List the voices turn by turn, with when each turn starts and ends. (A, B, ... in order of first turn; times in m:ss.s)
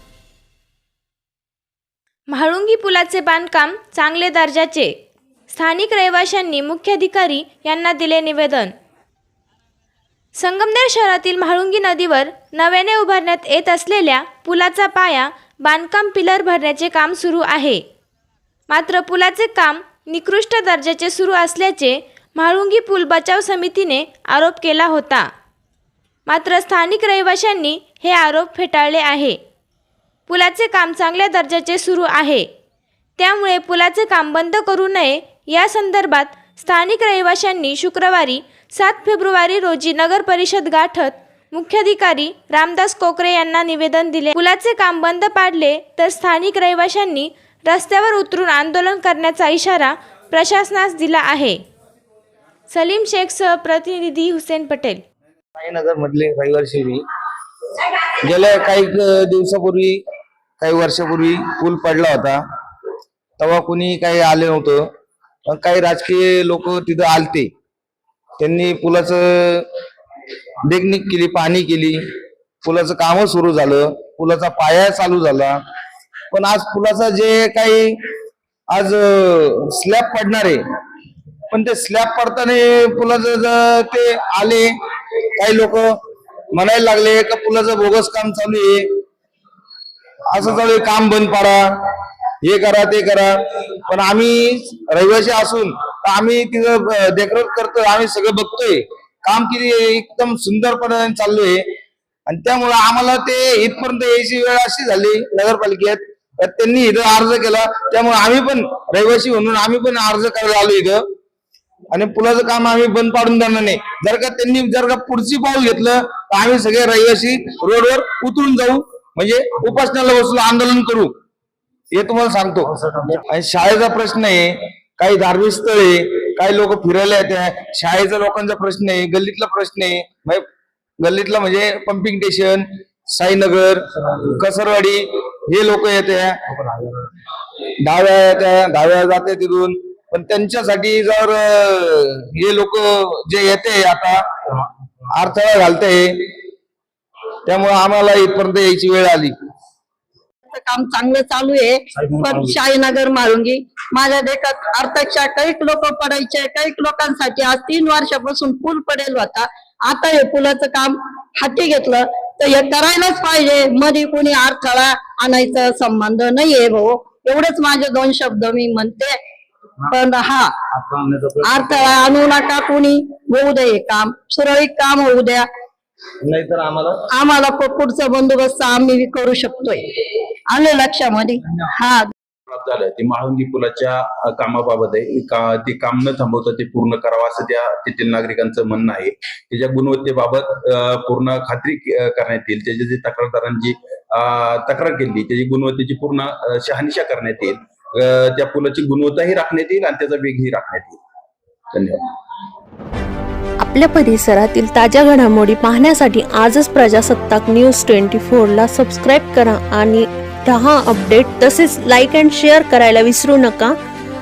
0:02.3-0:04.9 A
0:05.5-0:08.7 A
0:10.4-0:17.8 A
0:18.7-0:25.3 A
0:26.3-0:29.4 A
0:30.3-0:32.5 A
0:33.2-0:51.6 A
0:52.7-0:55.0 A
0:55.6-0:57.0 B
0:58.2-1:00.0 B
1:00.6-1:02.4 B
1:03.4-1:04.9 B
1:05.5-1:07.5 B
1:08.4-1:09.7 B
1:10.7-1:12.0 B
1:12.6-1:15.6 B
1:16.3-1:18.0 B
1:18.7-1:20.6 B
1:21.5-1:24.7 B
1:25.4-1:26.0 B
1:26.5-1:28.9 B
1:30.3-1:31.9 B
1:32.4-1:41.6 B
1:42.3-1:51.0 B
1:51.9-2:01.1 B
2:01.9-2:10.4 B
2:11.0-2:16.4 B
2:17.8-2:24.2 B
2:25.1-2:26.3 B
2:27.5-2:29.3 B
2:30.5-2:49.2 C
2:49.9-2:50.5 C
2:50.8-2:51.1 B
2:51.4-2:55.5 C
2:56.2-2:57.0 B
2:57.1-2:59.8 C
3:00.5-3:02.1 C
3:02.5-3:21.0 D
3:21.7-3:22.0 D
3:23.6-3:33.8 E